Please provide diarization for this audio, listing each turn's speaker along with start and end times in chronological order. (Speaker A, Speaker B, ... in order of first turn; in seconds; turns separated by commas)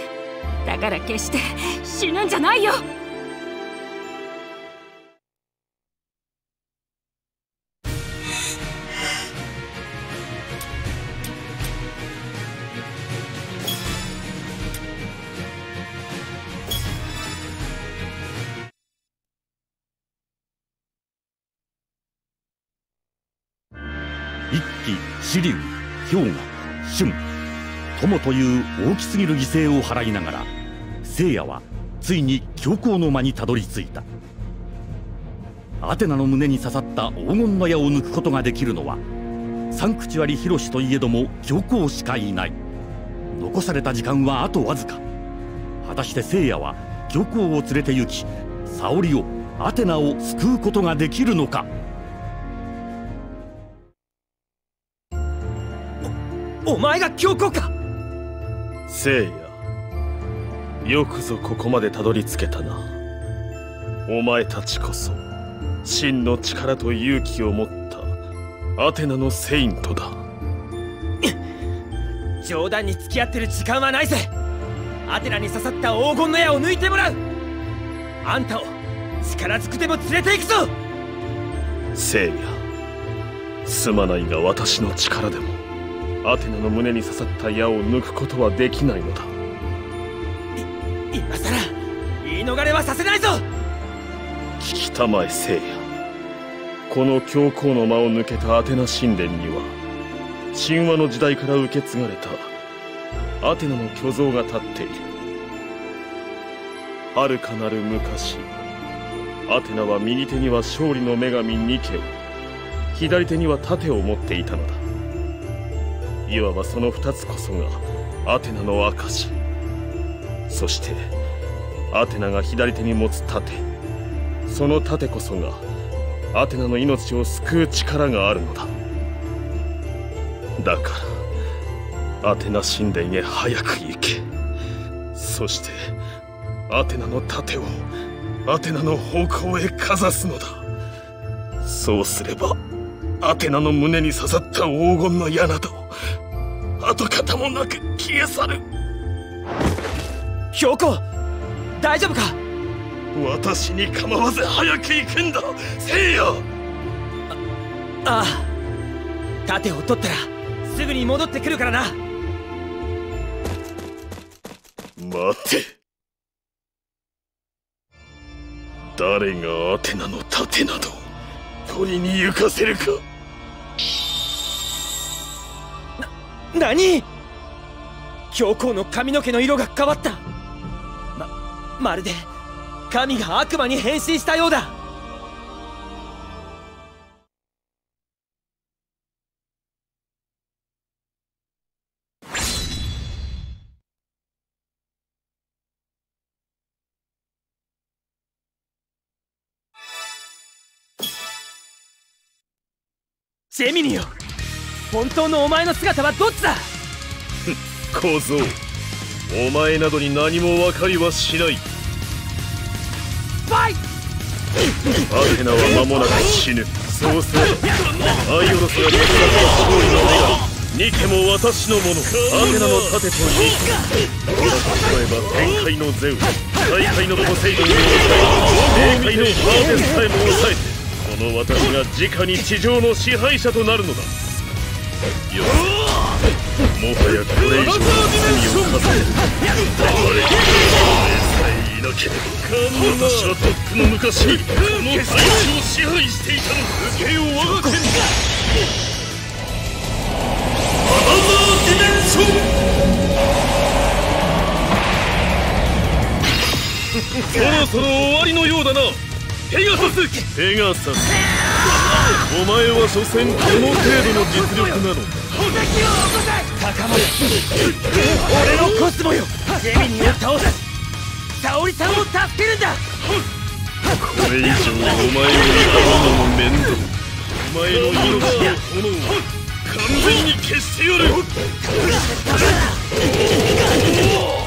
Speaker A: 0.6-2.8, Speaker B: 24.5-27.2, Speaker B: 27.9-30.5, Speaker B: 31.0-34.1, Speaker B: 35.8-39.0, Speaker B: 39.7-42.6, Speaker B: 43.3-45.0, Speaker B: 45.8-51.7, Speaker C: 56.6-57.7, Speaker D: 58.9-59.6, Speaker D: 60.8-62.9, Speaker D: 64.0-65.2, Speaker D: 65.8-68.2, Speaker D: 68.8-70.2, Speaker C: 72.4-74.3, Speaker C: 75.0-77.2, Speaker C: 78.2-80.7, Speaker D: 81.9-82.6, Speaker D: 83.7-85.6, Speaker D: 86.2-89.3, Speaker C: 90.5-93.4, Speaker D: 94.6-95.8, Speaker D: 96.9-99.8, Speaker D: 100.5-102.5, Speaker D: 103.4-105.1, Speaker D: 107.1-108.5, Speaker D: 109.5-112.1, Speaker D: 112.9-114.8, Speaker D: 116.2-119.4, Speaker D: 120.5-121.1, Speaker D: 121.9-123.7, Speaker D: 124.5-125.7, Speaker D: 126.3-128.7, Speaker D: 130.6-131.2, Speaker D: 132.2-134.3, Speaker D: 135.1-135.9, Speaker D: 136.7-137.9, Speaker D: 138.4-140.6, Speaker D: 141.6-142.6, Speaker D: 143.2-145.9, Speaker D: 146.8-148.6, Speaker C: 150.5-151.0, Speaker C: 151.8-152.4, Speaker D: 153.1-156.4, Speaker C: 158.0-158.5, Speaker C: 159.4-162.0, Speaker D: 165.0-165.7, Speaker D: 168.9-171.1, Speaker D: 171.7-173.0, Speaker C: 176.0-177.1, Speaker C: 178.3-180.2, Speaker C: 181.2-182.3, Speaker C: 182.9-184.8, Speaker C: 203.5-204.1, Speaker C: 204.9-206.7, Speaker D: 207.9-208.6, Speaker D: 209.3-211.6, Speaker C: 213.5-213.8, Speaker D: 215.1-217.6, Speaker D: 218.2-234.1, Speaker D: 235.3-236.1, Speaker D: 236.7-247.9, Speaker D: 250.9-252.4, Speaker D: 257.2-261.2, Speaker D: 262.2-265.3, Speaker C: 265.4-270.6, Speaker C: 271.4-272.8, Speaker D: 274.0-281.3, Speaker C: 281.8-282.8